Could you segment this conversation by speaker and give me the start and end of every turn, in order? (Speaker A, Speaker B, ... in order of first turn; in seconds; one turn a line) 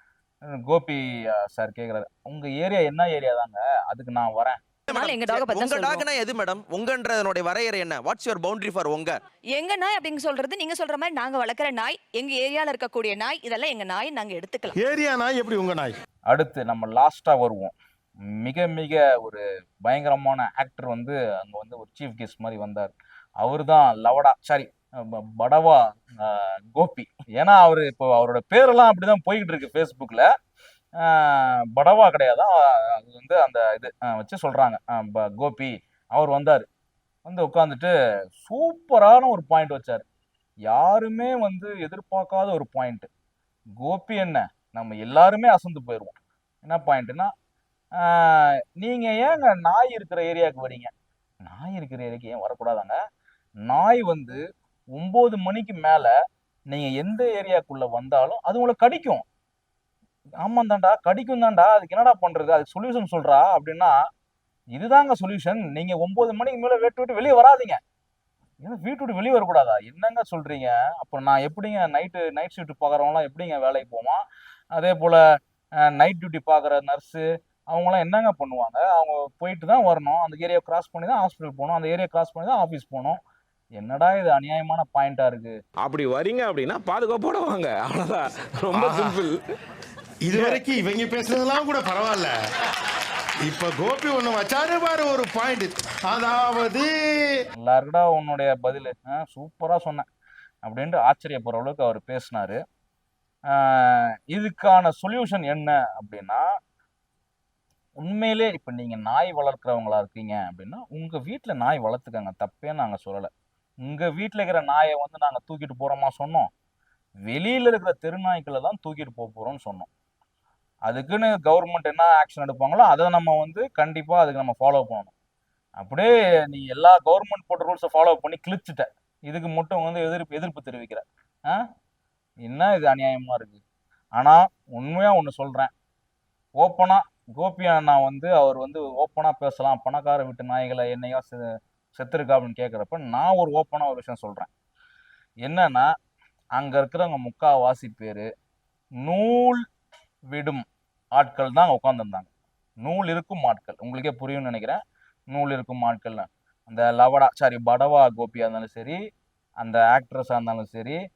Speaker A: 0.5-4.6
Speaker B: 4.9-9.2
Speaker C: 4.9-6.1
Speaker C: 9.5-14.8
Speaker D: 14.8-15.9
Speaker A: 16.3-17.7
Speaker A: 18.4-30.3
Speaker A: 31.0-36.6
Speaker A: 37.3-40.0
Speaker A: 40.7-43.1
Speaker A: 43.8-47.3
Speaker A: 48.0-50.9
Speaker A: 51.4-53.0
Speaker A: 53.7-54.4
Speaker A: 55.0-56.1
Speaker A: 56.7-59.2
Speaker A: 60.4-64.0
Speaker A: 64.8-67.8
Speaker A: 68.6-74.2
Speaker A: 74.8-75.2
Speaker A: 75.9-83.2
Speaker A: 83.8-85.5
Speaker E: 85.9-89.3
Speaker D: 88.7-89.2
Speaker D: 90.2-92.3
Speaker D: 93.5-97.4
Speaker A: 97.6-100.1
Speaker A: 100.7-102.6
Speaker A: 103.5-106.5
Speaker A: 108.0-113.3
Speaker A: 113.8-116.5
Speaker A: 117.3-119.9
Speaker A: 120.9-125.1
Speaker A: 125.8-131.6
Speaker A: 132.5-133.6
Speaker A: 134.2-135.7
Speaker A: 136.6-141.4
Speaker A: 141.9-144.5
Speaker A: 145.5-145.9
Speaker A: 146.6-148.3
Speaker A: 149.0-149.6
Speaker A: 150.3-150.6
Speaker A: 151.2-152.3
Speaker A: 152.8-154.8
Speaker A: 155.3-159.0
Speaker A: 159.6-161.0